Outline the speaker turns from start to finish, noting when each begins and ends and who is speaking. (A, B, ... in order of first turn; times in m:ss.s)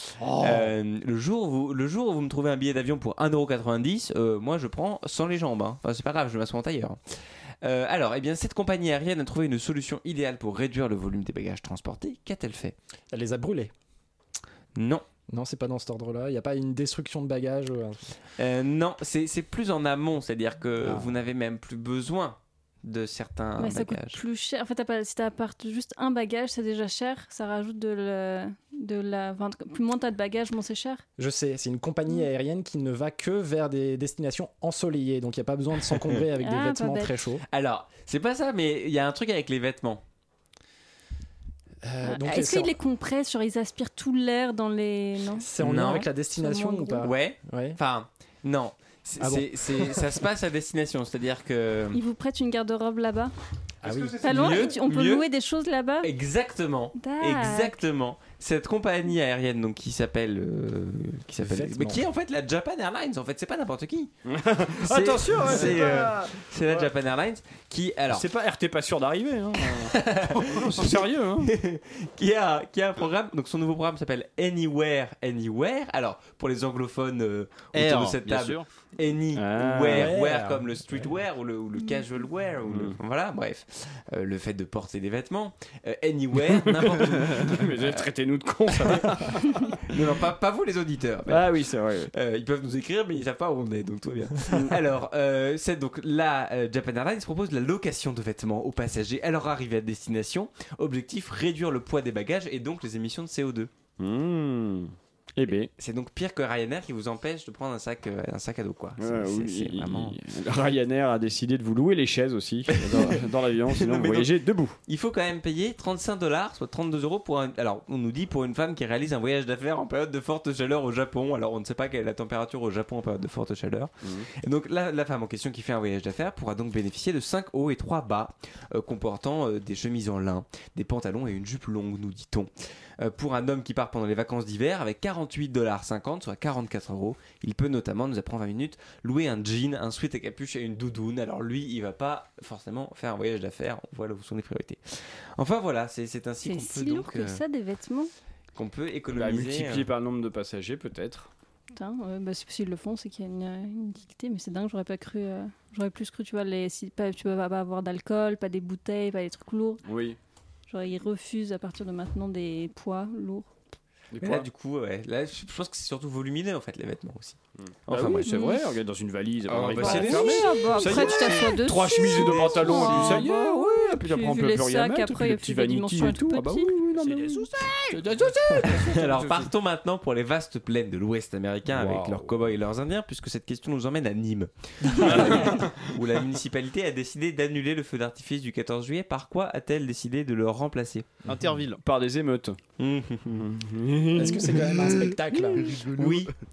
0:00.2-0:00.6 A
0:00.4-0:12.8 B
0:13.1-0:13.7 C
0:14.8-0:15.0 B
0:15.3-0:18.0 C
0:18.4-0:24.2 B
0:20.8-0:21.1 C
0:23.6-0:31.0 D
0:31.2-0:37.4 C
0:36.4-0:37.2 D
0:37.5-0:40.0 B
0:41.8-0:42.8 C
0:42.0-0:45.5 D
0:45.4-0:47.8 C
0:45.6-0:46.1 B
0:46.3-0:47.1 D
0:47.0-0:52.0 B
0:49.2-0:50.0 C
0:51.9-0:53.3 D
0:53.8-0:54.3 C
0:53.8-0:55.2 B
0:54.2-0:56.1 D
0:56.0-1:04.1 B
0:57.0-0:57.8 D
1:01.4-1:02.0 C
1:04.2-1:06.9 A
1:04.8-1:08.2 B
1:08.1-1:11.5 A
1:09.8-1:28.0 B
1:17.7-1:18.7 E
1:19.3-1:20.1 A
1:19.9-1:20.9 C
1:22.7-1:23.0 A
1:26.7-1:29.8 A
1:28.8-1:29.1 B
1:29.8-1:43.7 B
1:31.3-1:32.1 A
1:44.0-1:45.7 A
1:45.8-1:50.2 B
1:49.0-1:54.8 A
1:52.8-2:27.4 B
2:04.0-2:04.3 A
2:26.4-2:28.1 D
2:28.5-2:29.9 B
2:29.1-2:31.3 A
2:31.7-2:39.8 D
2:39.8-2:40.2 A
2:40.7-2:43.5 D
2:44.1-2:44.5 A
2:44.2-2:48.3 B
2:47.6-2:59.5 A
2:48.2-2:48.6 D
2:49.5-2:51.5 B
2:49.8-2:56.7 D
2:52.0-2:53.2 B
2:57.0-2:57.5 E
2:58.6-3:11.1 B
3:01.7-3:02.3 A
3:04.9-3:05.7 A
3:11.3-3:11.8 E
3:11.8-3:12.6 A
3:12.8-3:13.4 B
3:13.3-3:15.1 A
3:14.1-3:15.8 C
3:16.0-3:16.3 B